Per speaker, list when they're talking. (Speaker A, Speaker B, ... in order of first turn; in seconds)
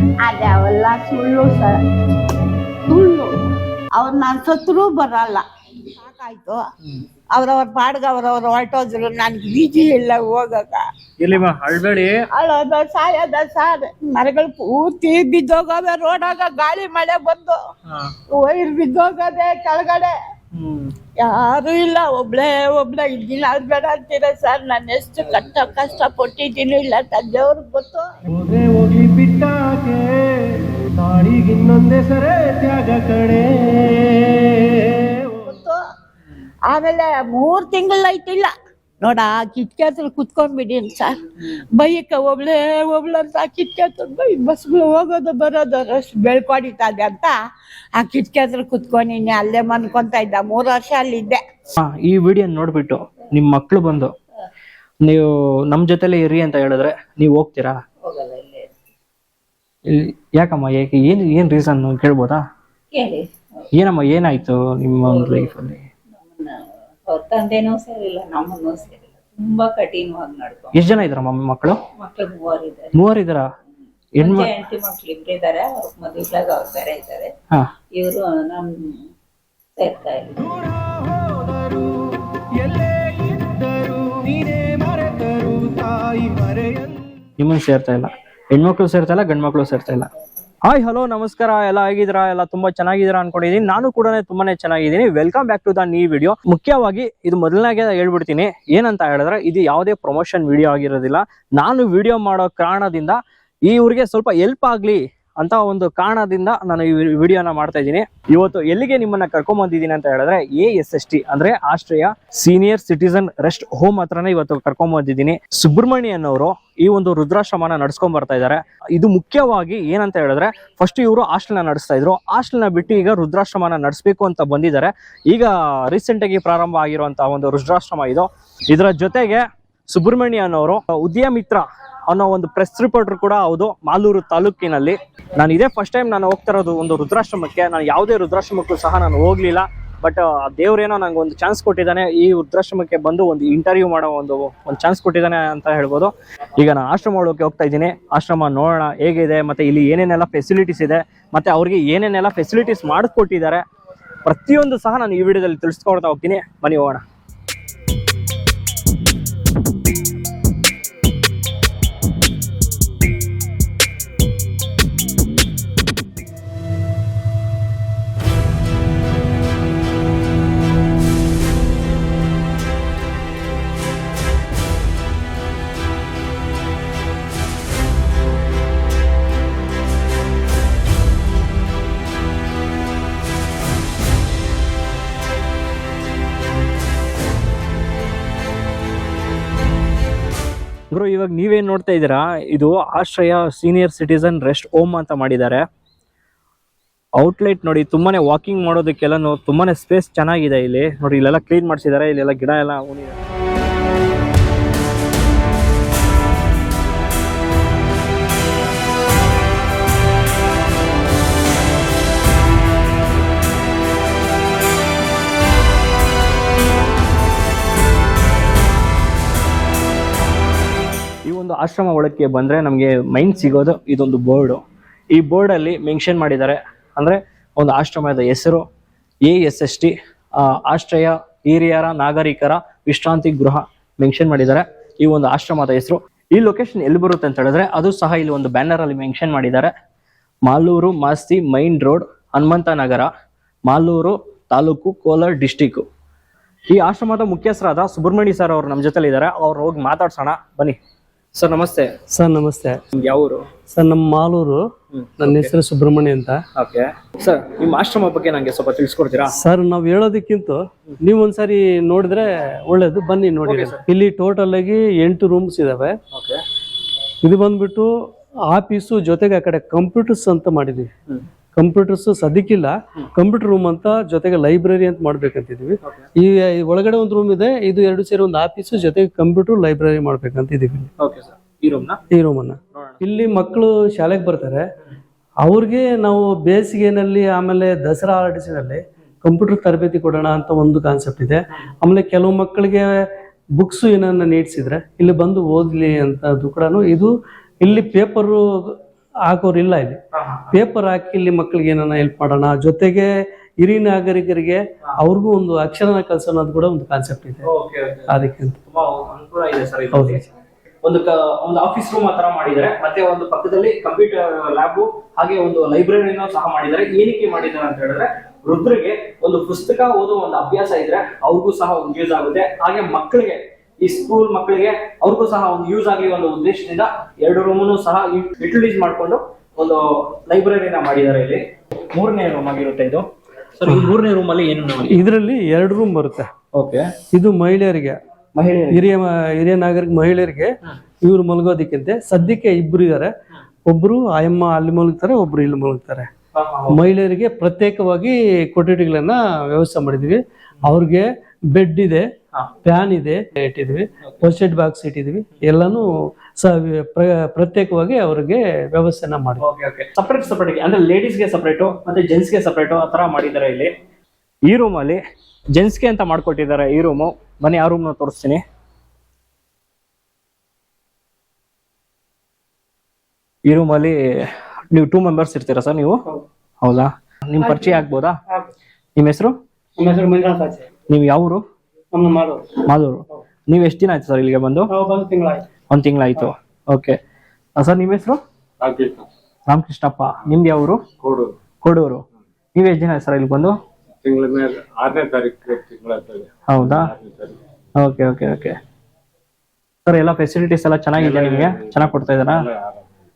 Speaker A: 0.2-1.8, 2.9-3.3, 4.0-6.6, 7.3-10.9, 12.3-17.6, 18.3-20.1, 21.2-28.1, 35.4-35.8, 36.7-47.4, 48.0-51.4
Speaker B: 11.2-12.2, 17.9-18.1, 20.5-20.9, 51.8-54.1, 55.0-57.8, 59.9-62.4, 63.7-65.8, 70.8-71.8, 73.0-73.5, 74.2-74.5, 87.4-90.1, 90.7-153.6, 154.2-157.0, 190.9-195.6, 197.2-203.2, 221.2-228.7, 229.2-239.7, 240.5-243.1, 243.7-245.8, 246.7-250.8, 251.4-251.9, 252.9-253.5, 254.9-255.5, 256.6-259.4, 263.5-263.8, 266.1-266.4, 281.0-282.0, 282.7-283.0, 300.1-300.6, 307.4-308.2, 308.7-310.2, 310.8-333.1, 333.6-335.0, 336.5-336.9, 338.4-338.9, 346.4-346.9, 359.4-363.7, 364.5-365.0, 365.6-368.4, 373.5-376.0, 376.6-378.2, 379.0-379.4, 380.9-381.4, 382.7-384.7, 385.7-387.0, 387.6-388.2, 389.5-390.8, 391.6-392.0, 392.6-393.6, 396.5-396.9, 397.8-398.6, 399.9-402.4
Speaker C: 28.3-35.5, 80.4-87.0
Speaker D: 58.0-58.7, 62.9-63.7, 65.1-65.5, 66.2-70.9, 72.0-73.0, 74.2-77.3, 78.0-79.0, 79.8-80.4
Speaker E: 252.1-252.8, 253.7-254.7, 255.2-256.4, 259.3-266.0, 267.2-267.9, 268.5-270.9, 271.6-280.9, 282.1-284.6, 285.4-300.0, 300.5-303.1, 303.6-307.4, 308.1-308.6, 309.9-310.2, 333.7-333.9, 334.9-336.3, 337.1-338.0, 338.7-343.1, 343.7-346.1, 346.7-352.1, 352.6-355.9, 356.4-359.4
Speaker F: 377.4-378.5, 379.8-380.7, 381.9-382.6, 384.7-385.5
Speaker G: 388.6-389.1, 391.0-391.3, 394.0-397.4, 401.0-402.9